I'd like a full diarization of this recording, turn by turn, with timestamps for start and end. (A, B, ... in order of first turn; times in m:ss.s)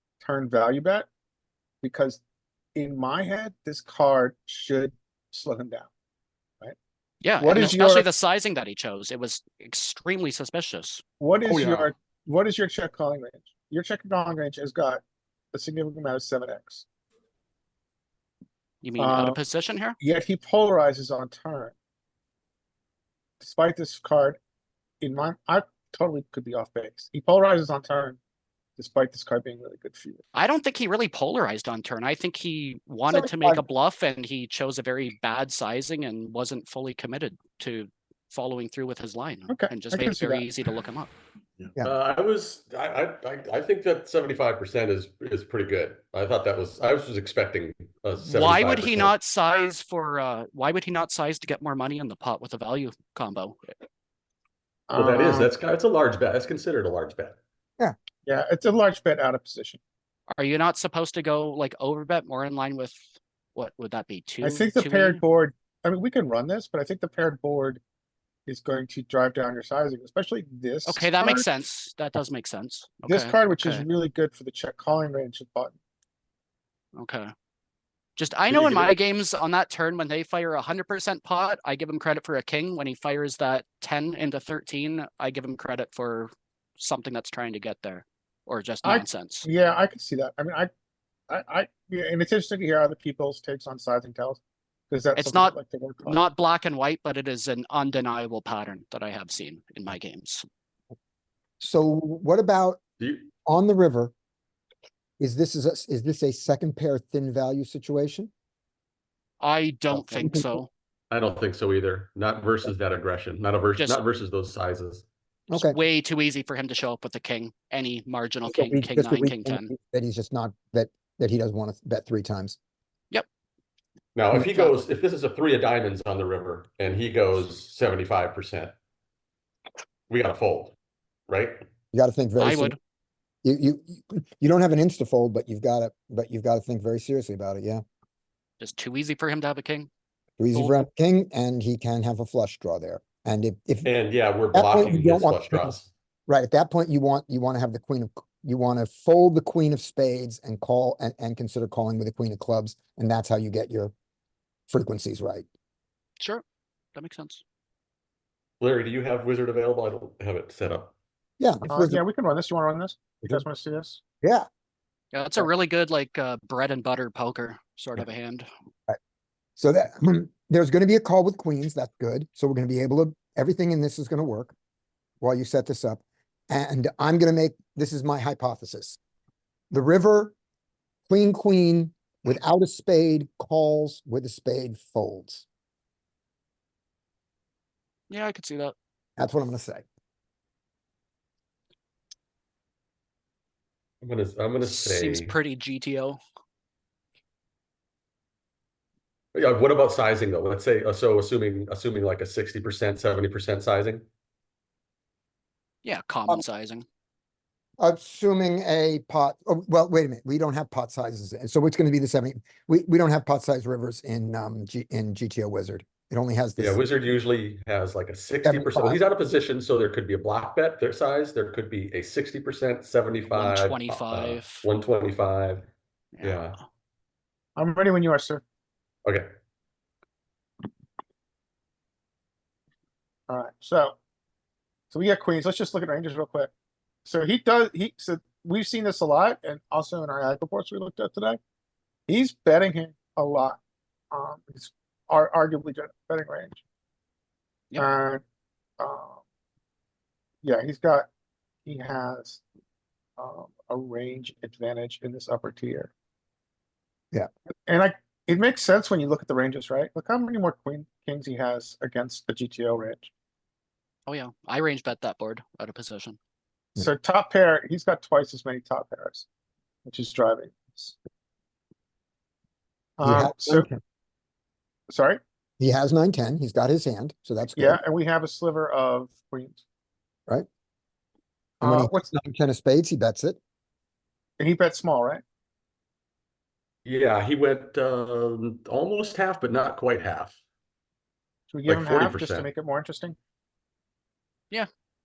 0:00.2-0:01.1 A
0:01.8-0:02.2 A
0:02.7-0:05.9 A
0:07.2-0:11.0 B
0:07.4-0:08.1 A
0:11.2-0:16.8 A
0:11.4-0:11.9 C
0:18.8-0:20.0 B
0:19.0-0:19.4 A
0:20.0-0:21.7 A
0:23.4-0:24.4 A
0:25.0-0:28.2 A
0:28.8-0:30.2 A
0:30.3-0:41.1 B
0:33.1-0:33.6 D
0:39.5-0:40.5 A
0:41.6-0:49.1 C
0:48.2-0:53.6 B
0:54.9-0:55.5 A
0:54.9-0:57.4 C
0:58.2-0:59.8 A
1:00.3-1:03.0 B
1:03.5-1:05.2 B
1:04.4-1:07.8 A
1:08.4-1:11.5 A
1:10.8-1:13.8 B
1:13.0-1:15.7 A
1:17.0-1:17.3 B
1:18.2-1:29.5 B
1:18.5-1:18.9 C
1:28.8-1:30.7 A
1:31.3-1:36.2 A
1:35.2-1:40.4 B
1:41.6-1:42.8 D
1:43.0-1:43.3 C
1:43.4-1:44.1 D
1:45.2-1:48.3 D
1:49.4-1:50.7 B
1:49.9-1:50.6 D
1:51.1-1:55.0 C
1:55.5-1:59.7 B
1:55.5-1:55.8 D
1:58.4-2:02.6 D
2:04.1-2:08.7 C
2:04.3-2:04.8 B
2:10.1-2:10.7 C
2:11.3-2:11.6 C
2:11.9-2:12.8 D
2:12.4-2:12.8 B
2:13.4-2:17.8 D
2:18.6-2:19.9 B
2:20.4-2:23.9 D
2:20.5-2:20.8 B
2:23.8-2:25.9 C
2:24.5-2:33.9 D
2:34.7-2:35.4 D
2:36.9-2:37.4 B
2:38.6-2:40.9 C
2:41.4-2:42.0 D
2:41.7-2:44.0 A
2:45.1-2:48.5 B
2:49.6-2:54.5 D
2:55.2-2:59.0 D
2:59.7-3:00.3 D
3:01.1-3:05.4 D
3:08.1-3:08.7 B
3:09.2-3:09.8 D
3:14.0-3:15.3 C
3:14.6-3:16.2 B
3:19.3-3:24.0 C
3:25.8-3:26.8 B
3:27.8-3:36.8 D
3:36.6-3:45.7 C
3:38.4-3:39.0 D
3:43.3-3:44.7 B
3:46.2-3:46.5 B
3:46.2-3:46.6 C
3:47.6-3:48.4 A
3:53.3-3:54.0 A
3:54.9-3:56.5 A
3:57.0-4:01.4 A
4:02.1-4:03.6 A
4:04.1-4:06.6 A
4:07.8-4:08.2 A
4:08.8-4:09.2 A
4:10.4-4:11.1 A
4:11.6-4:12.4 A
4:13.2-4:15.9 A
4:17.7-4:23.1 A
4:24.1-4:26.2 B
4:26.8-4:29.2 A
4:29.8-4:31.0 A
4:33.0-4:33.7 A
4:33.0-4:33.8 D
4:34.9-4:35.2 A
4:35.6-4:37.8 D
4:37.6-4:39.6 A
4:41.6-4:42.0 A
4:41.6-4:43.4 D
4:44.4-4:45.2 A
4:46.8-4:50.4 C
4:51.5-4:53.2 A
4:51.6-4:52.5 C